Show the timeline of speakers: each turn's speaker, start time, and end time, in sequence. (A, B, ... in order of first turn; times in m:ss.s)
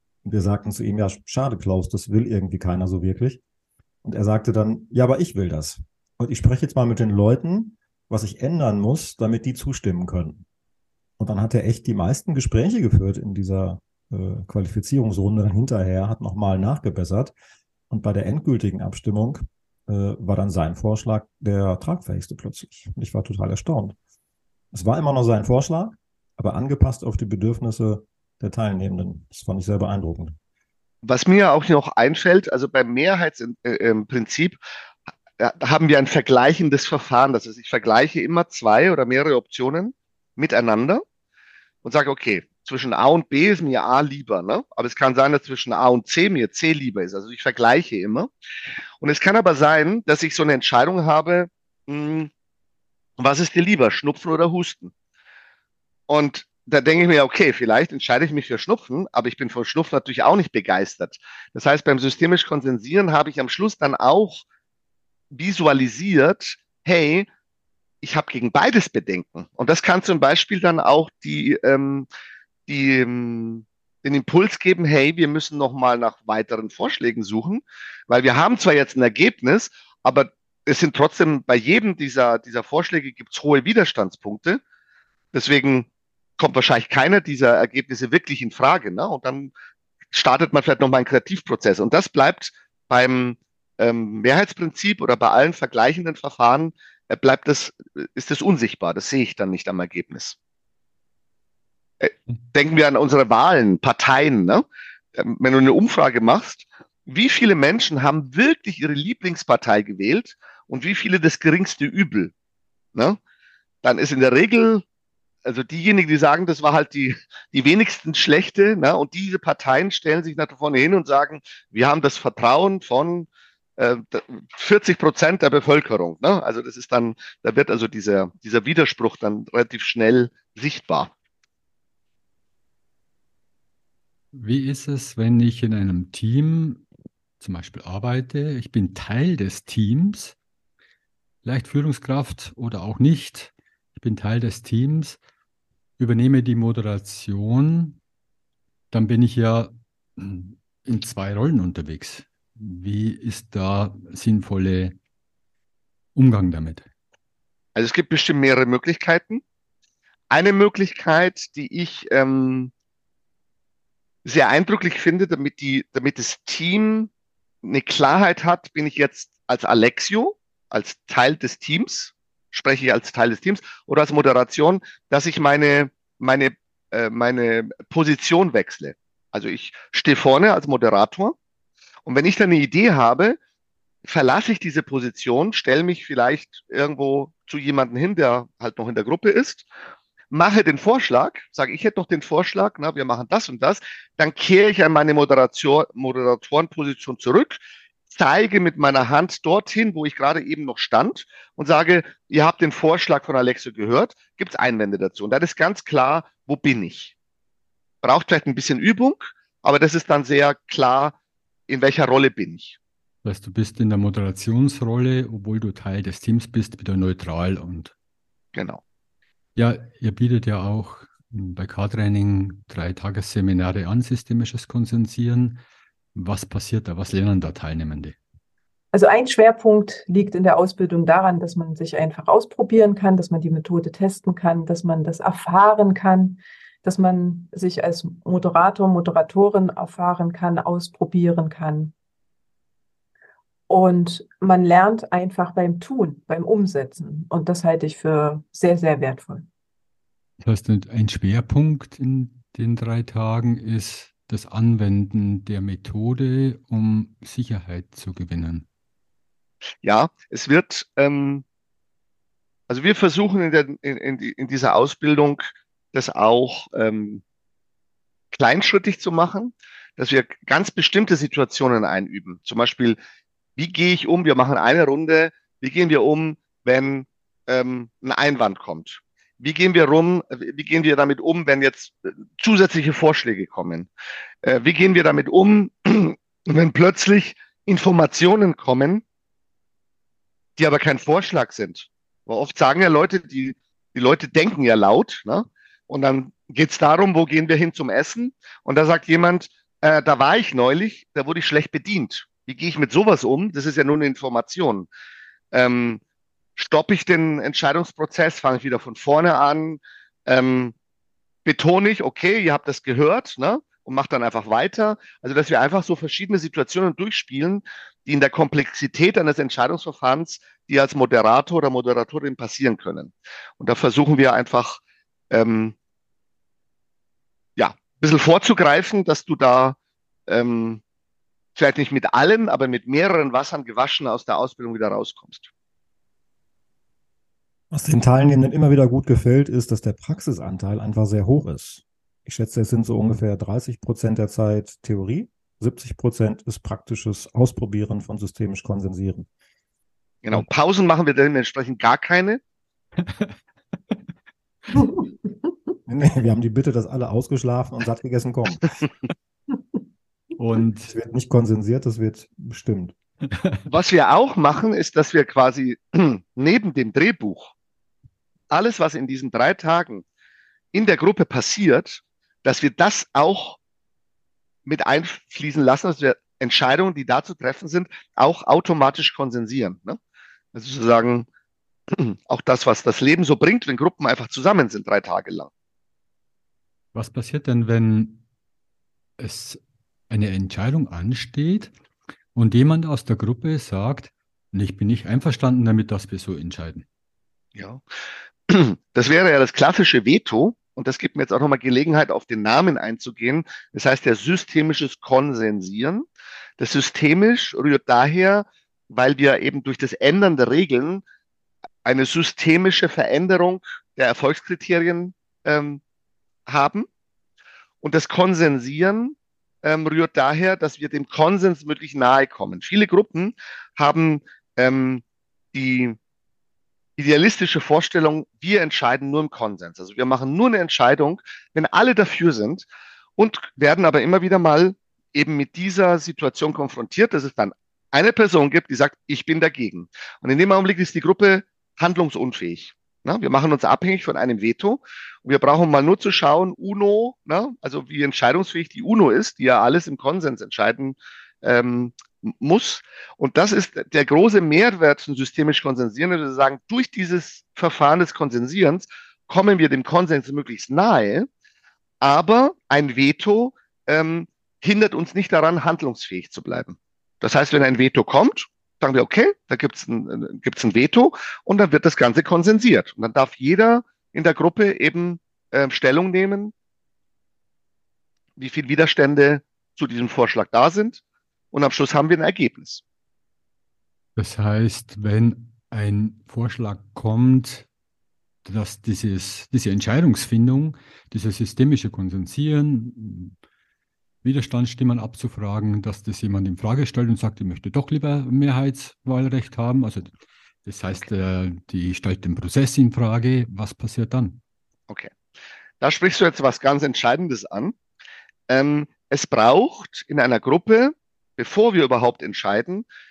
0:00.2-0:03.4 A
0:04.0-0:10.4 A
0:11.2-0:17.3 A
0:17.9-0:24.0 A
0:24.7-0:30.4 A
0:31.0-0:34.6 B
0:35.4-0:41.0 B
0:41.8-0:48.3 B
0:49.0-0:52.3 B
0:53.2-0:54.9 B
0:56.1-1:04.4 B
1:05.3-1:07.3 B
1:08.0-1:12.1 B
1:12.7-1:24.6 B
1:25.3-1:29.5 B
1:30.1-1:40.4 B
1:42.0-1:44.6 B
1:45.1-1:52.3 B
1:53.8-1:54.8 B
1:55.4-2:11.1 B
2:14.3-2:16.8 C
2:17.4-2:20.4 C
2:21.4-2:25.2 C
2:26.0-2:28.0 C
2:28.9-2:35.0 C
2:36.1-2:36.9 C
2:37.7-2:39.4 B
2:40.3-2:42.7 B
2:44.2-2:47.1 B
2:47.6-3:01.4 B
3:02.0-3:03.4 B
3:04.0-3:09.7 B
3:10.3-3:27.1 B
3:28.0-3:31.1 B
3:31.7-3:32.8 B
3:33.2-3:37.9 C
3:38.6-3:38.8 B
3:39.6-3:45.6 C
3:46.1-3:48.2 C
3:48.9-4:01.9 D
4:03.7-4:09.5 D
4:10.4-4:18.7 C
4:19.8-4:21.4 B
4:22.7-4:27.2 B
4:28.4-4:33.0 B
4:33.6-4:43.9 B
4:44.4-4:49.0 B
4:50.6-5:04.9 B
5:05.5-5:06.0 B
5:06.6-5:10.7 B
5:11.4-5:24.8 B
5:25.3-5:25.8 B
5:27.6-5:30.8 B
5:31.6-5:35.5 B
5:37.7-5:49.3 A
5:50.2-5:52.4 B
5:53.0-5:53.4 C
5:55.9-5:58.8 A
6:00.4-6:00.9 C
6:00.9-6:03.0 A
6:03.3-6:03.6 C
6:03.7-6:07.5 B
6:08.5-6:10.0 B
6:10.7-6:13.6 B
6:14.7-6:20.0 B
6:20.5-6:21.3 B
6:21.9-6:25.5 B
6:26.9-6:28.2 C
6:29.2-6:29.6 C
6:30.1-6:31.7 C
6:32.4-6:36.8 C
6:37.6-6:37.8 B
6:38.5-6:46.0 B
6:46.6-6:51.0 B
6:51.8-6:55.8 B
6:56.5-6:56.9 B
6:57.8-7:06.0 B
7:07.0-7:12.7 B
7:13.2-7:41.3 B
7:42.0-7:56.5 B
7:58.4-8:01.0 B
8:01.5-8:02.8 B
8:04.2-8:07.7 C
8:08.4-8:13.4 C
8:14.2-8:20.1 C
8:20.7-8:24.4 C
8:25.8-8:27.8 B
8:28.5-8:32.9 B